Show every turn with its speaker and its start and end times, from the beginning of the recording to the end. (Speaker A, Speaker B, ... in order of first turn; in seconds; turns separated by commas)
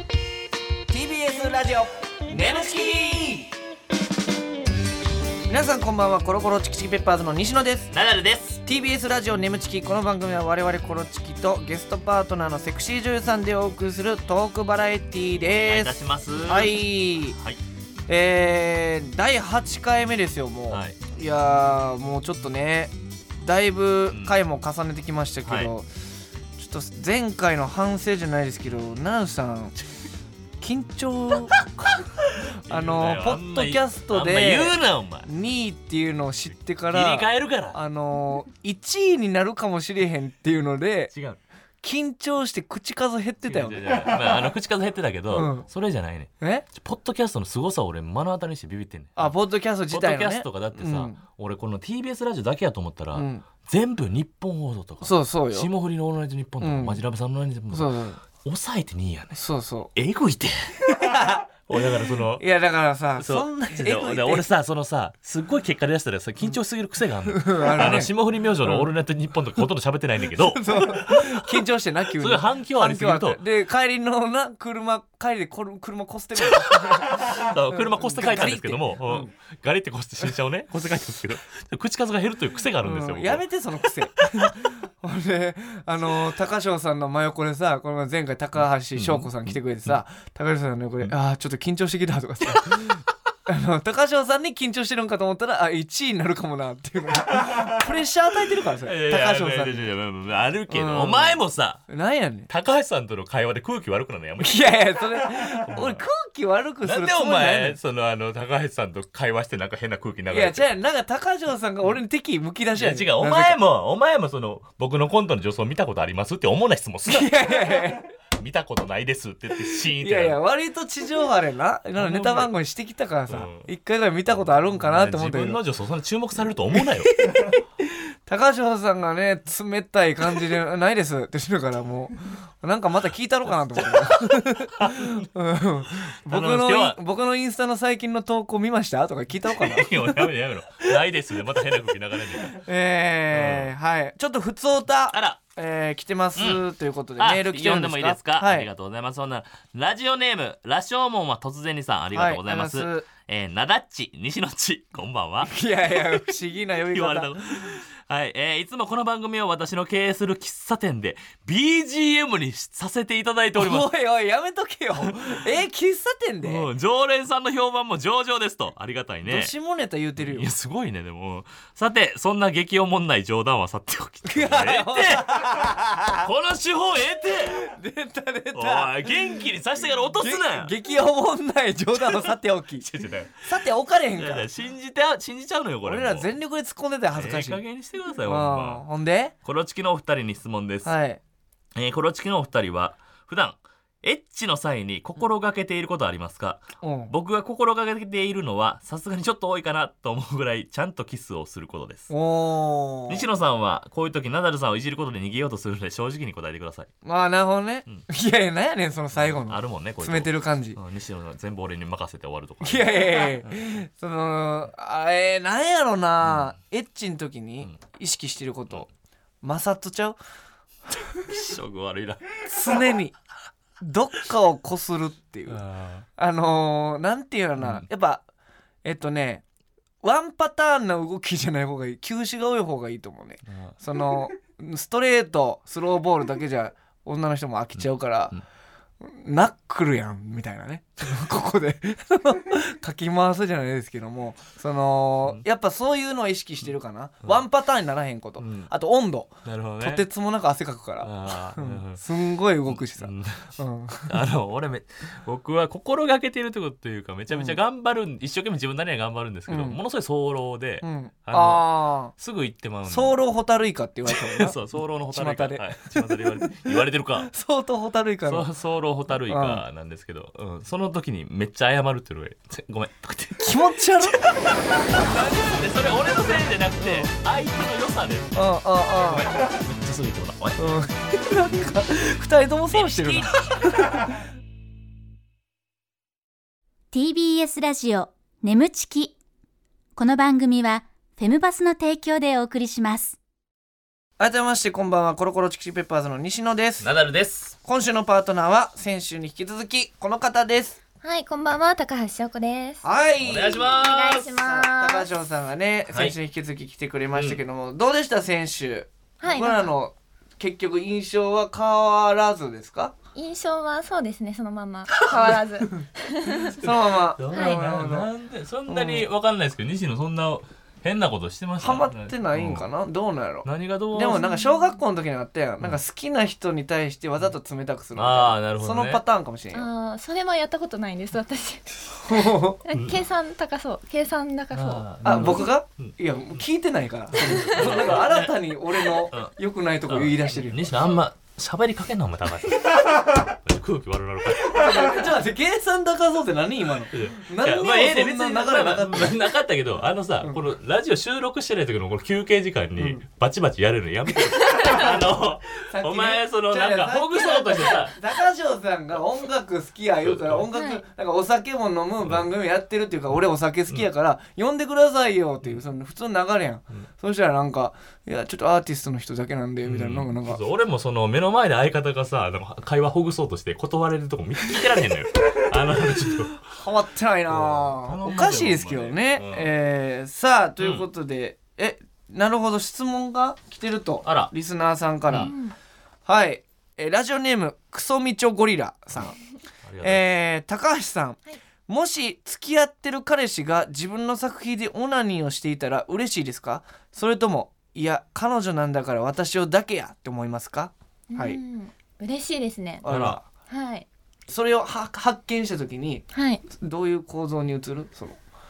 Speaker A: 0.9-3.5, Speaker B: 2.3-3.3, Speaker A: 5.5-7.9, Speaker B: 7.9-8.6, Speaker A: 8.7-17.4, Speaker B: 15.7-16.8, Speaker A: 18.1-25.9, Speaker B: 20.7-21.0, Speaker B: 24.1-24.4, Speaker B: 25.4-25.7, Speaker A: 26.6-29.8, Speaker A: 30.6-31.6, Speaker B: 31.6-35.3, Speaker A: 32.7-41.1, Speaker B: 36.9-37.8, Speaker B: 41.1-41.4, Speaker A: 41.8-44.2, Speaker B: 43.4-49.3, Speaker A: 45.3-45.6, Speaker A: 46.4-46.6, Speaker A: 49.2-51.2, Speaker B: 49.9-59.4, Speaker A: 53.1-53.4, Speaker A: 55.0-55.7, Speaker A: 56.6-57.0, Speaker A: 57.7-58.2, Speaker A: 59.4-59.9, Speaker B: 59.9-60.7, Speaker A: 60.8-64.5, Speaker B: 61.7-62.4, Speaker B: 63.2-73.4, Speaker A: 67.3-68.1, Speaker A: 68.6-68.9, Speaker A: 70.2-79.3, Speaker B: 76.5-83.4, Speaker A: 82.8-99.9, Speaker B: 88.9-89.3, Speaker B: 92.5-92.8, Speaker B: 98.8-101.8, Speaker A: 100.7-102.5, Speaker B: 102.5-104.6, Speaker A: 104.4-107.8, Speaker B: 105.7-106.0, Speaker B: 106.8-110.7, Speaker A: 110.3-113.6, Speaker B: 112.7-120.4, Speaker A: 117.0-118.1, Speaker A: 119.7-125.6, Speaker B: 122.0-122.5, Speaker B: 123.3-123.7, Speaker B: 124.6-127.2, Speaker A: 126.7-127.6, Speaker A: 128.3-140.3, Speaker B: 133.8-135.3, Speaker B: 136.3-137.0, Speaker B: 139.6-142.6, Speaker A: 142.5-148.7, Speaker B: 143.3-143.7, Speaker B: 145.1-145.4, Speaker B: 146.3-146.6, Speaker B: 147.2-156.2, Speaker A: 152.1-153.1, Speaker A: 155.5-157.8, Speaker B: 156.9-163.9, Speaker A: 163.5-166.7, Speaker B: 165.0-165.3, Speaker B: 166.4-169.5, Speaker A: 169.2-170.5, Speaker B: 170.2-177.7, Speaker A: 174.2-176.3, Speaker A: 177.5-179.4, Speaker B: 178.5-180.7, Speaker A: 180.2-182.9, Speaker B: 181.9-183.4, Speaker A: 183.4-184.5, Speaker B: 184.2-186.3, Speaker A: 185.8-187.6, Speaker B: 187.1-188.8, Speaker A: 188.2-189.3, Speaker B: 189.4-190.9, Speaker A: 190.8-191.2, Speaker B: 191.8-202.1, Speaker A: 196.8-197.1, Speaker A: 202.1-203.2, Speaker B: 203.1-206.9, Speaker A: 207.0-210.8, Speaker B: 209.2-213.7, Speaker A: 212.6-218.9, Speaker B: 216.2-216.5, Speaker A: 219.4-220.2, Speaker A: 220.9-221.2, Speaker B: 221.2-222.5, Speaker A: 222.4-223.1, Speaker A: 223.8-225.6, Speaker B: 225.5-226.1, Speaker A: 226.2-228.2, Speaker B: 227.6-227.8, Speaker A: 228.8-229.4, Speaker A: 230.0-238.3, Speaker B: 233.5-233.7, Speaker B: 237.8-238.4, Speaker A: 239.0-254.1, Speaker B: 248.4-248.7, Speaker B: 249.4-250.0, Speaker B: 251.0-252.0, Speaker B: 252.7-263.2, Speaker A: 257.3-257.6, Speaker A: 259.5-259.8, Speaker A: 260.8-262.1, Speaker A: 262.9-264.6, Speaker B: 264.1-267.3, Speaker A: 265.1-268.5, Speaker B: 268.2-280.6, Speaker A: 269.2-269.6, Speaker A: 273.4-274.3, Speaker A: 276.8-277.1, Speaker A: 278.3-279.3, Speaker A: 280.6-284.1, Speaker B: 282.7-283.8, Speaker C: 286.9-289.1, Speaker C: 289.9-293.1, Speaker A: 294.2-296.9, Speaker B: 296.8-297.5, Speaker A: 297.6-300.8, Speaker D: 301.0-302.8, Speaker A: 302.8-303.8, Speaker B: 303.2-304.4, Speaker D: 303.8-305.1, Speaker A: 304.4-312.9, Speaker B: 305.9-306.1, Speaker B: 307.1-307.4, Speaker D: 309.2-309.7, Speaker D: 313.1-316.5, Speaker B: 315.0-315.3, Speaker B: 316.5-322.6, Speaker A: 316.5-318.1, Speaker D: 317.3-317.6, Speaker A: 318.7-319.1, Speaker A: 321.6-329.7, Speaker B: 323.4-324.2, Speaker D: 324.1-324.8, Speaker B: 327.9-329.0, Speaker D: 329.5-335.5, Speaker A: 332.1-332.6, Speaker B: 332.7-333.0, Speaker B: 334.5-336.4, Speaker A: 335.0-340.7, Speaker B: 337.1-339.3, Speaker B: 339.9-344.9, Speaker A: 344.4-349.2, Speaker B: 346.9-358.0, Speaker A: 352.8-353.0, Speaker A: 355.7-370.4, Speaker B: 360.0-360.5, Speaker D: 360.5-360.8, Speaker B: 369.6-376.5, Speaker A: 376.5-385.3, Speaker B: 377.3-379.5, Speaker B: 380.6-380.8, Speaker B: 384.0-384.3, Speaker D: 385.2-385.6, Speaker A: 386.1-389.2, Speaker B: 389.6-390.0, Speaker A: 389.8-401.4, Speaker D: 401.1-402.9, Speaker A: 402.8-403.2, Speaker B: 402.9-403.2, Speaker D: 403.5-403.9, Speaker A: 404.3-408.2, Speaker D: 406.1-406.4